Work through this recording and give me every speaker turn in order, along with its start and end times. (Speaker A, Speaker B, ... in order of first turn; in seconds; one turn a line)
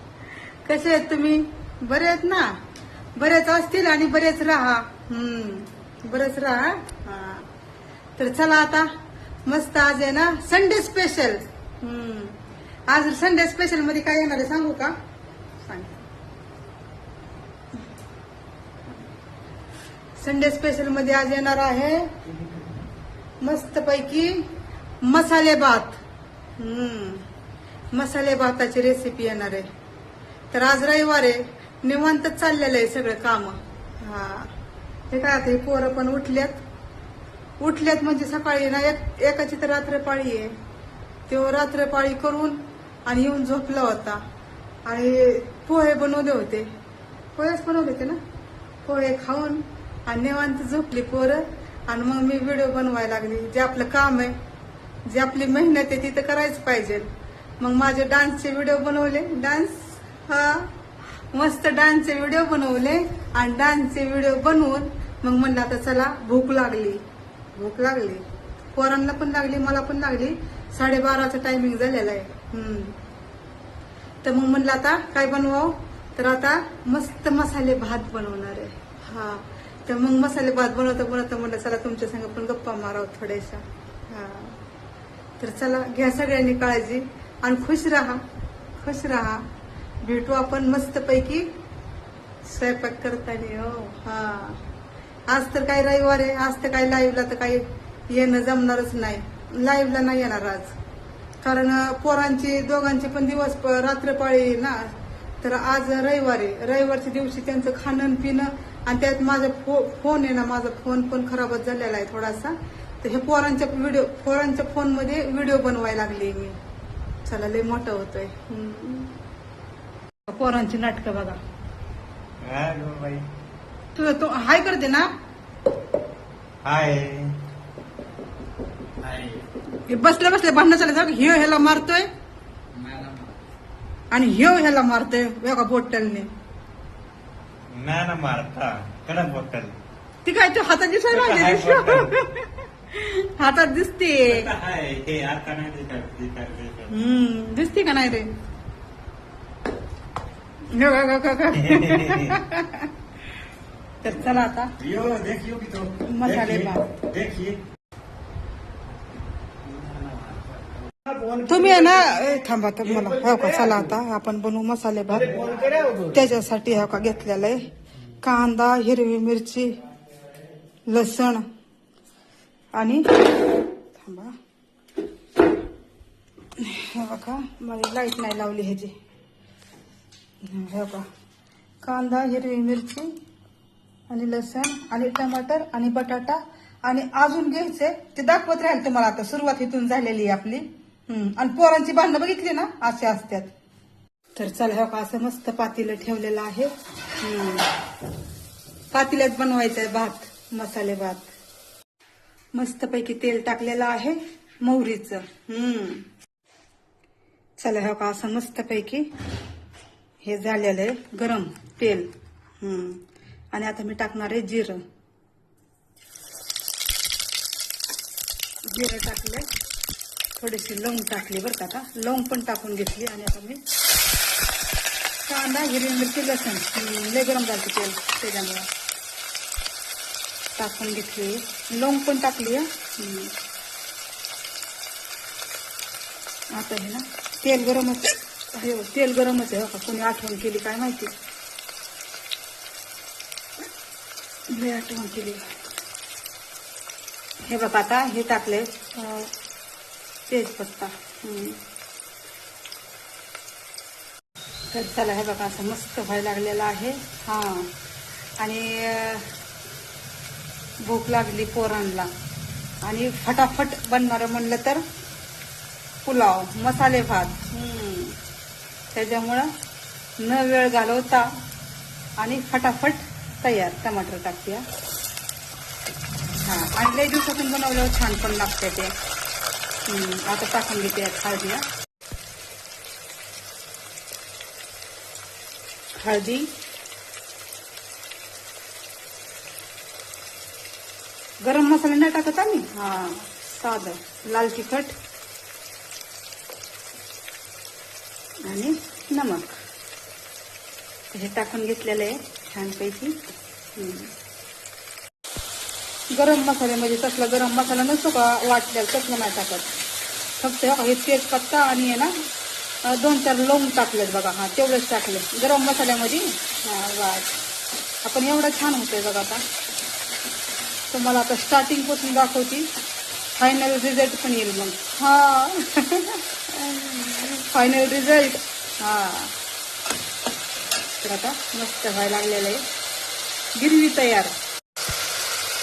Speaker A: 0.6-2.6
Speaker A: 3.2-7.5
Speaker A: 8.2-8.9
Speaker A: 9.4-15.0
Speaker A: 15.6-16.1
Speaker A: 20.2-22.2
Speaker A: 23.4-24.5
Speaker A: 25.0-26.0
Speaker A: 26.6-27.3
Speaker A: 27.9-29.7
Speaker A: 30.5-34.5
Speaker A: 35.1-36.6
Speaker A: 37.6-40.5
Speaker A: 41.3-44.2
Speaker A: 44.8-46.7
Speaker A: 47.3-48.2
Speaker A: 48.8-54.4
Speaker A: 55.0-60.7
Speaker A: 61.3-67.0
Speaker A: 67.5-68.2
Speaker A: 68.7-73.0
Speaker A: 74.2-84.6
Speaker A: 85.4-88.2
Speaker A: 88.8-89.5
Speaker A: 90.0-91.5
Speaker A: 92.4-94.6
Speaker A: 95.3-100.8
Speaker A: 101.4-116.6
Speaker A: 117.2-119.2
Speaker A: 120.3-121.4
Speaker B: 122.4-123.3
Speaker A: 123.9-125.1
Speaker B: 126.6-127.4
Speaker B: 129.0-129.4
Speaker A: 129.9-132.1
Speaker A: 134.1-136.3
Speaker B: 137.7-139.8
Speaker A: 140.2-144.5
Speaker B: 141.1-142.1
Speaker B: 144.3-146.9
Speaker A: 146.9-148.3
Speaker A: 150.7-152.9
Speaker B: 151.6-152.4
Speaker A: 154.0-154.7
Speaker B: 154.8-157.6
Speaker A: 156.0-157.0
Speaker A: 161.3-169.7
Speaker A: 170.9-171.4
Speaker A: 172.7-174.3
Speaker A: 176.6-178.9
Speaker A: 180.4-181.1
Speaker A: 181.8-183.1
Speaker A: 184.1-193.5
Speaker A: 194.4-197.7
Speaker A: 198.9-201.3
Speaker A: 202.5-206.1
Speaker A: 207.6-209.1
Speaker A: 210.2-212.1
Speaker A: 212.6-214.8
Speaker A: 218.7-219.5
Speaker A: 220.4-223.6
Speaker A: 225.3-228.7
Speaker A: 230.6-233.3
Speaker A: 236.5-241.1
Speaker A: 244.5-245.4
Speaker A: 247.4-249.3
Speaker A: 250.3-251.6
Speaker A: 254.7-257.7
Speaker A: 258.4-259.3
Speaker A: 260.8-262.1
Speaker A: 262.8-264.8
Speaker A: 266.0-268.2
Speaker A: 268.9-269.5
Speaker A: 270.2-271.3
Speaker A: 272.2-274.6
Speaker A: 276.4-278.9
Speaker A: 279.9-281.6
Speaker A: 286.0-286.5
Speaker A: 291.4-294.9
Speaker A: 298.4-299.6
Speaker A: 301.1-303.2
Speaker A: 303.7-304.1
Speaker A: 306.1-309.7
Speaker A: 310.4-312.1
Speaker A: 312.8-317.4
Speaker A: 318.0-319.4
Speaker A: 320.9-322.7
Speaker A: 323.3-329.3
Speaker A: 331.0-332.6
Speaker A: 333.6-334.3